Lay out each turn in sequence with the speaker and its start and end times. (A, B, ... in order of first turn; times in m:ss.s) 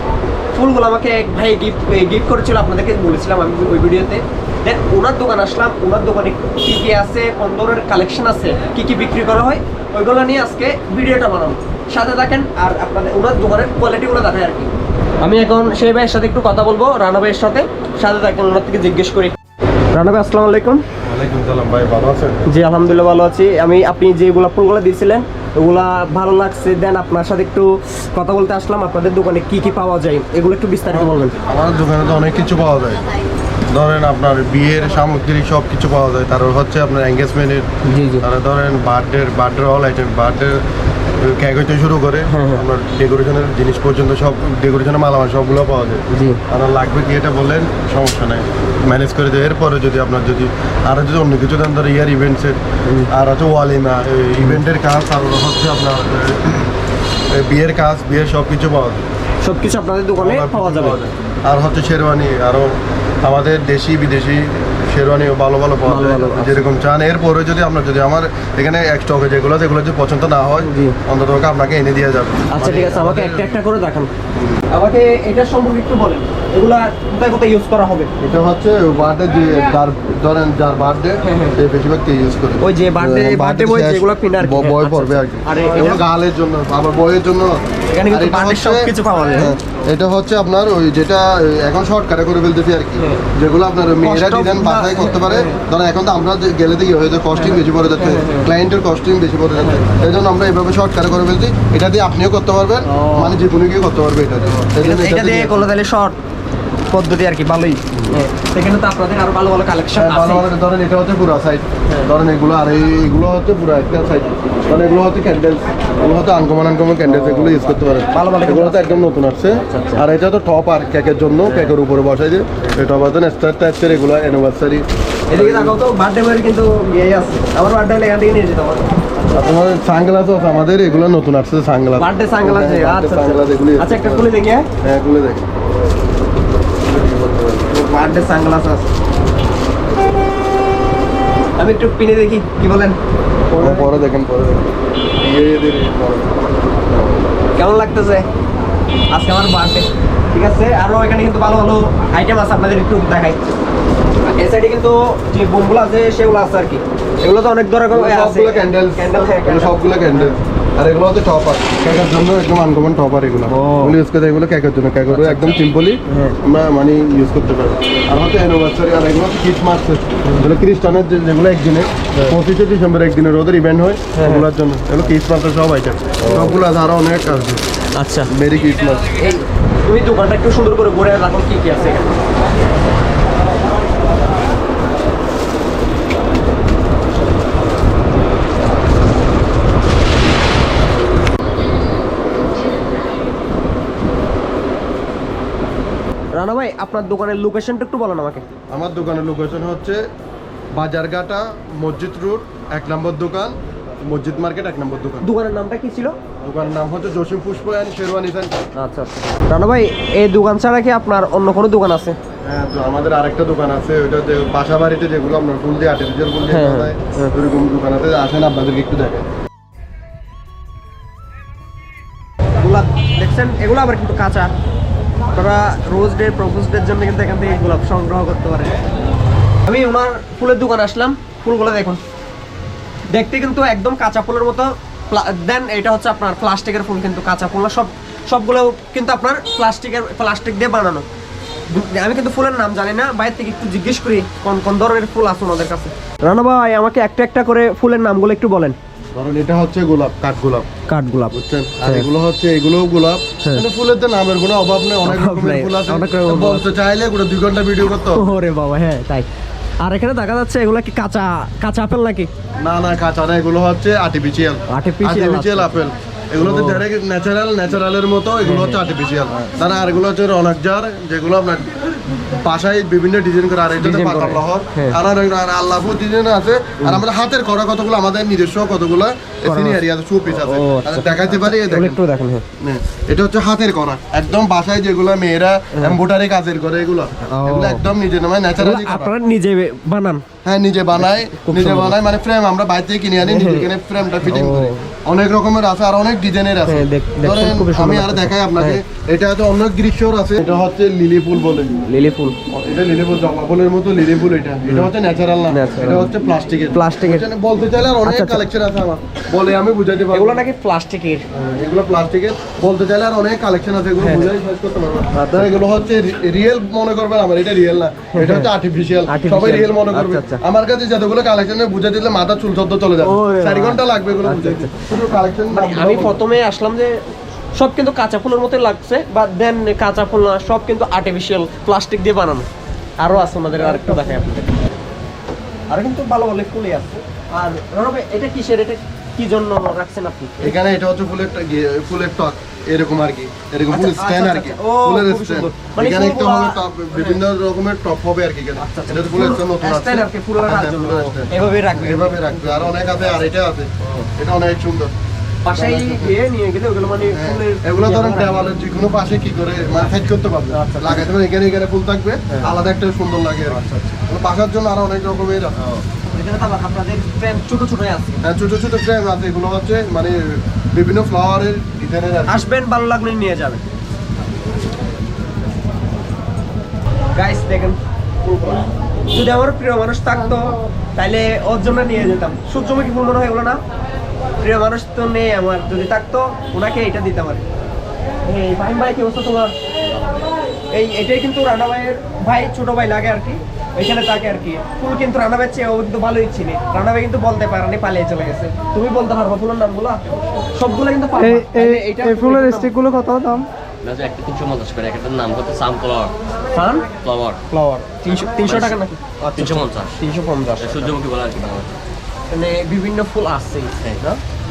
0:00.5-0:19.4 A
0:19.9-0:20.8 A
0:21.0-0:22.4 B
0:22.5-0:31.4 A
0:30.9-0:33.0 B
0:33.7-0:37.7 B
0:37.9-0:38.2 A
0:38.2-0:40.6 B
0:41.2-0:52.6 B
0:42.3-0:42.6 A
0:46.1-0:46.4 A
0:53.1-0:56.6 B
0:57.3-0:59.0 B
0:59.4-1:01.0 A
1:00.2-1:13.6 B
1:05.9-1:06.7 A
1:10.6-1:11.0 A
1:12.5-1:14.1 A
1:14.7-1:18.1 A
1:18.2-1:45.6 B
1:21.2-1:21.6 A
1:22.6-1:26.0 A
1:27.9-1:29.6 A
1:33.0-1:33.2 A
1:34.0-1:35.6 A
1:37.3-1:38.5 A
1:39.6-1:39.8 A
1:42.9-1:43.4 A
1:44.8-1:46.2 A
1:46.9-1:50.5 A
1:49.9-2:05.8 B
1:57.0-1:59.0 A
1:59.7-2:00.0 A
2:01.5-2:01.8 A
2:05.3-2:08.9 A
2:09.3-2:15.4 B
2:12.0-2:14.7 A
2:16.9-2:17.7 B
2:17.7-2:18.9 A
2:21.6-2:23.0 A
2:23.5-2:24.0 A
2:23.6-2:24.7 B
2:25.2-2:27.2 B
2:27.6-2:28.3 A
2:29.1-2:33.4 A
2:34.3-2:40.4 A
2:37.9-2:57.6 B
2:43.5-2:44.0 A
2:45.1-2:46.4 A
2:54.1-2:54.5 A
2:56.2-2:56.6 A
2:58.0-2:58.3 A
2:58.3-2:59.1 B
2:59.2-3:02.2 A
3:16.3-3:18.4 A
3:18.7-3:20.0 B
3:20.8-3:25.3 B
3:25.2-3:26.2 A
3:26.4-3:28.5 B
3:28.8-3:32.2 A
3:32.4-3:39.2 B
3:36.5-3:37.3 A
3:42.6-3:44.5 A
3:45.3-3:48.8 A
3:49.7-3:52.0 A
3:53.1-4:01.0 A
4:01.7-4:08.8 A
4:09.2-4:10.7 B
4:10.9-4:12.1 A
4:11.3-4:18.2 B
4:15.0-4:16.7 A
4:18.2-4:19.3 A
4:19.8-4:22.3 A
4:22.6-4:42.0 B
4:24.7-4:25.8 A
4:26.4-4:26.8 A
4:28.4-4:28.8 A
4:33.8-4:35.0 A
4:39.5-4:42.4 A
4:42.6-4:49.1 B
4:47.3-4:47.8 A
4:48.6-4:50.2 A
4:50.4-5:01.8 B
4:51.0-4:52.0 A
4:53.2-4:53.7 A
4:54.3-4:54.9 A
4:56.7-4:58.8 A
5:01.9-5:02.4 A
5:02.5-5:10.4 B
5:05.5-5:06.1 A
5:06.7-5:07.3 A
5:08.0-5:08.4 A
5:10.1-5:11.3 A
5:11.3-5:26.2 B
5:14.0-5:14.3 A
5:15.1-5:15.5 A
5:18.1-5:18.5 A
5:19.1-5:20.4 A
5:23.0-5:24.8 A
5:25.5-5:27.0 A
5:27.6-5:32.5 A
5:33.0-5:34.5 A
5:35.7-5:40.5 A
5:40.4-5:54.9 B
5:43.7-5:47.2 A
5:48.6-5:53.0 A
5:55.4-5:58.5 A
5:55.5-5:56.2 B
5:57.0-6:05.6 B
6:00.5-6:01.1 A
6:02.3-6:02.6 A
6:03.5-6:03.9 A
6:06.1-6:08.2 A
6:08.2-6:12.4 B
6:12.3-6:13.6 A
6:17.1-6:23.6 A
6:24.4-6:27.4 A
6:28.2-6:29.5 A
6:30.7-6:42.7 A
6:41.2-6:43.5 C
6:43.8-6:46.1 D
6:46.5-6:46.9 A
6:47.0-6:47.4 D
6:47.5-6:50.9 A
6:48.4-6:48.8 D
6:49.3-6:50.0 D
6:50.6-6:51.7 D
6:52.3-6:54.2 A